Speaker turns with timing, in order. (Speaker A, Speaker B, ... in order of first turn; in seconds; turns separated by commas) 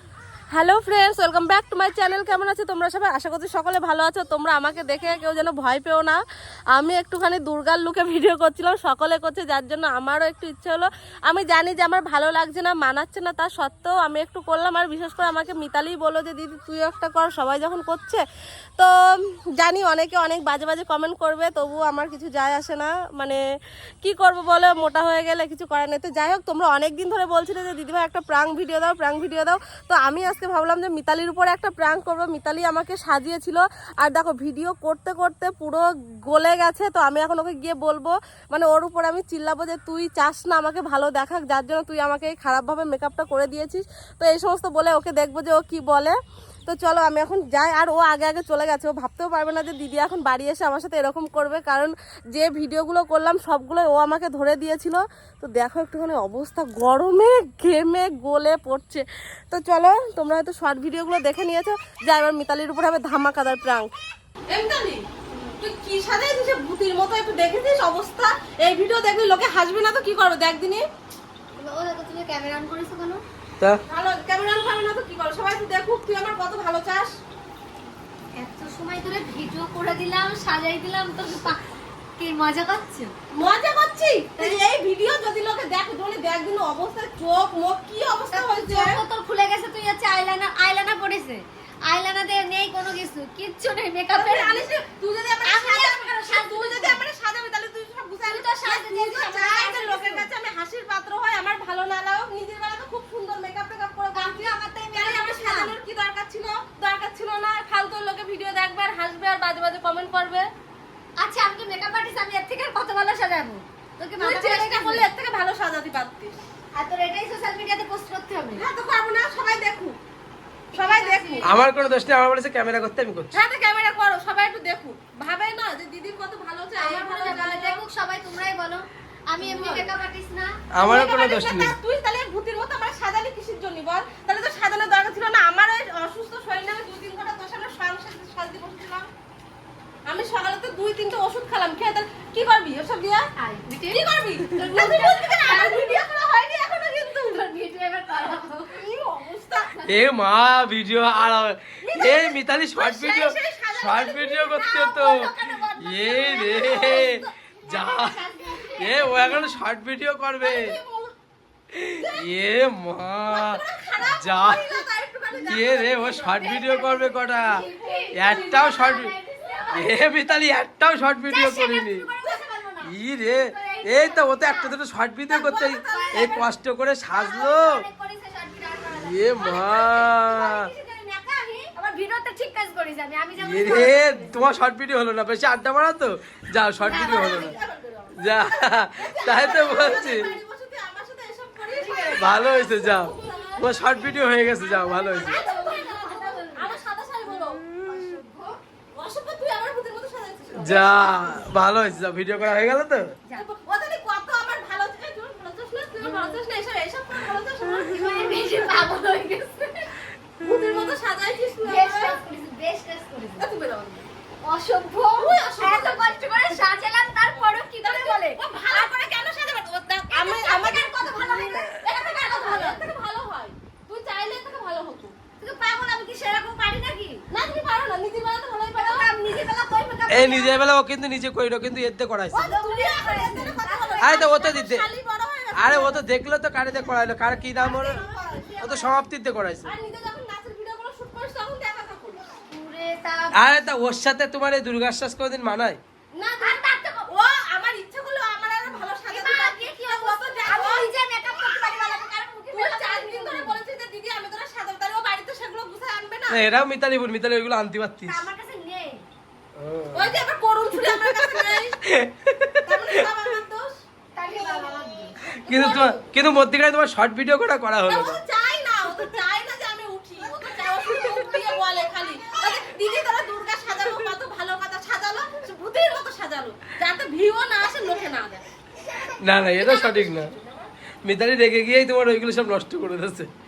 Speaker A: 0.5-6.2, Speaker A: 6.7-18.2, Speaker A: 19.6-23.4, Speaker A: 24.0-46.1, Speaker A: 46.7-63.9, Speaker B: 64.5-65.0, Speaker B: 65.6-70.8, Speaker C: 71.6-73.2, Speaker B: 73.9-77.1, Speaker C: 78.3-81.6, Speaker C: 82.2-83.1, Speaker B: 83.3-89.0, Speaker C: 88.3-94.7, Speaker B: 94.1-110.5, Speaker C: 95.4-97.0, Speaker C: 98.2-100.3, Speaker C: 104.1-105.8, Speaker A: 109.1-109.7, Speaker C: 111.2-115.1, Speaker B: 114.2-116.4, Speaker C: 116.7-118.7, Speaker B: 118.5-120.0, Speaker C: 120.7-121.5, Speaker B: 120.7-121.5, Speaker D: 121.4-123.3, Speaker B: 123.3-127.8, Speaker C: 126.8-130.5, Speaker B: 129.4-129.9, Speaker D: 130.8-131.7, Speaker B: 130.8-139.1, Speaker B: 140.1-146.4, Speaker C: 143.3-144.0, Speaker C: 144.5-146.1, Speaker C: 146.6-148.8, Speaker B: 148.7-149.8, Speaker D: 149.8-158.2, Speaker B: 151.8-157.3, Speaker C: 157.7-159.3, Speaker D: 158.8-160.8, Speaker B: 160.4-161.1, Speaker D: 161.7-164.7, Speaker B: 163.3-167.1, Speaker D: 165.3-169.1, Speaker C: 167.2-169.9, Speaker B: 168.3-168.7, Speaker D: 169.7-172.1, Speaker C: 171.3-174.8, Speaker D: 172.8-177.8, Speaker B: 175.3-176.4, Speaker C: 175.4-176.5, Speaker C: 177.1-184.4, Speaker D: 179.0-180.7, Speaker D: 183.4-187.5, Speaker C: 186.8-187.6, Speaker B: 186.8-197.6, Speaker D: 188.2-190.3, Speaker A: 189.7-190.1, Speaker C: 191.7-192.4, Speaker D: 192.2-195.4, Speaker C: 195.1-196.8, Speaker C: 197.7-198.6, Speaker B: 198.9-201.0, Speaker D: 200.6-203.1, Speaker B: 203.3-208.7, Speaker C: 206.0-206.3, Speaker C: 207.8-209.9, Speaker B: 210.4-212.2, Speaker C: 211.6-213.5, Speaker B: 213.4-214.1, Speaker C: 214.4-218.9, Speaker B: 215.1-216.2, Speaker B: 217.8-225.1, Speaker C: 220.1-222.8, Speaker C: 225.4-227.2, Speaker B: 227.3-229.1, Speaker C: 228.7-230.6, Speaker D: 230.1-232.5, Speaker C: 232.3-234.2, Speaker B: 232.4-236.0, Speaker D: 234.0-234.8, Speaker D: 235.5-238.0, Speaker B: 237.6-238.9, Speaker C: 237.9-238.4, Speaker D: 238.6-239.7, Speaker B: 239.6-242.2, Speaker C: 242.5-243.3, Speaker D: 243.3-245.8, Speaker B: 246.2-250.9, Speaker C: 246.4-247.1, Speaker C: 249.1-253.6, Speaker B: 252.5-256.3, Speaker D: 256.3-258.2, Speaker C: 258.0-259.0, Speaker D: 259.6-260.2, Speaker B: 259.9-261.8, Speaker D: 260.9-263.1, Speaker B: 262.6-263.7, Speaker C: 264.1-265.1, Speaker B: 264.4-264.7, Speaker B: 265.4-266.0, Speaker D: 265.4-268.2, Speaker B: 267.9-278.4, Speaker D: 279.2-280.3, Speaker B: 279.6-280.7, Speaker D: 281.0-283.3